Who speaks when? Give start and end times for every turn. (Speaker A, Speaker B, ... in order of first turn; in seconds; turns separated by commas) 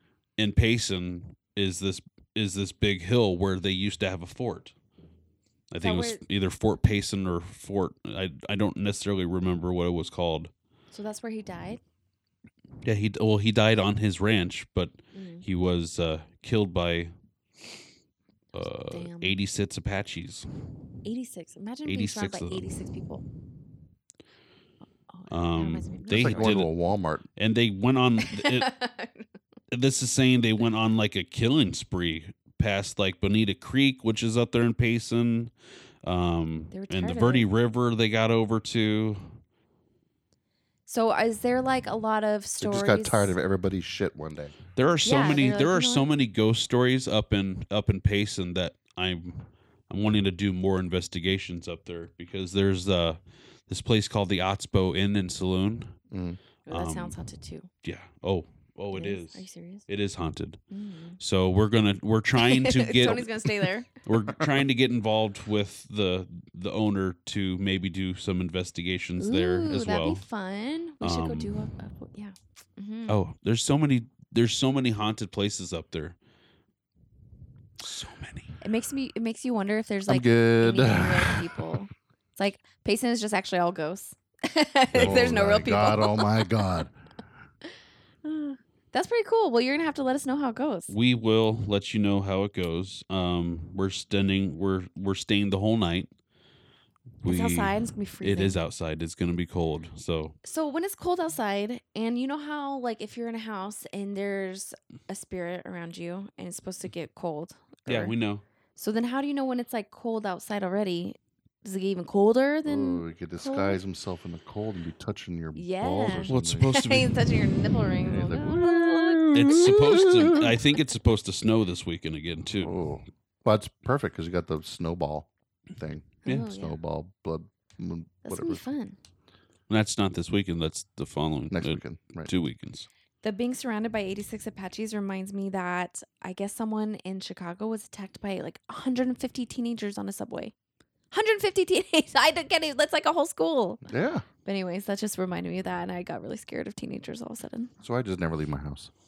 Speaker A: 0.4-4.7, Speaker A: 5.7-10.5, Speaker B: 5.8-6.2, Speaker B: 10.9-11.8, Speaker A: 12.8-17.1, Speaker B: 15.1-15.4, Speaker A: 18.5-20.5, Speaker B: 18.6-19.4, Speaker B: 21.1-23.2, Speaker A: 21.9-22.9, Speaker B: 25.1-26.6, Speaker A: 25.3-26.7, Speaker C: 26.1-27.3, Speaker A: 27.4-28.7, Speaker B: 28.2-29.3, Speaker A: 29.7-35.5, Speaker A: 36.0-39.4, Speaker B: 36.7-37.5, Speaker B: 40.9-43.4, Speaker C: 42.6-44.6, Speaker A: 44.8-56.0, Speaker B: 45.0-46.1, Speaker C: 56.1-56.4, Speaker B: 56.7-57.7, Speaker A: 56.7-57.2, Speaker A: 57.8-60.6, Speaker B: 58.9-59.9, Speaker B: 60.7-61.2, Speaker A: 61.2-70.2, Speaker B: 62.4-63.9, Speaker B: 69.2-73.2, Speaker A: 71.0-71.7, Speaker A: 73.1-76.2, Speaker A: 77.8-78.6, Speaker B: 78.6-86.5, Speaker C: 80.1-81.8, Speaker C: 84.9-86.9, Speaker B: 88.2-90.9, Speaker A: 90.9-96.1, Speaker A: 97.2-100.4, Speaker B: 97.2-98.6, Speaker B: 100.4-108.2, Speaker A: 107.9-108.4, Speaker B: 108.8-113.8, Speaker C: 112.7-116.8, Speaker B: 115.5-119.5, Speaker A: 116.2-117.3, Speaker C: 118.0-120.6, Speaker A: 119.3-122.7, Speaker C: 122.5-128.7, Speaker B: 126.2-126.8, Speaker B: 128.2-129.0, Speaker A: 129.7-132.9, Speaker C: 131.5-132.3, Speaker B: 133.2-140.5, Speaker B: 141.1-143.8, Speaker C: 143.9-144.2, Speaker B: 144.4-147.7, Speaker C: 147.8-148.9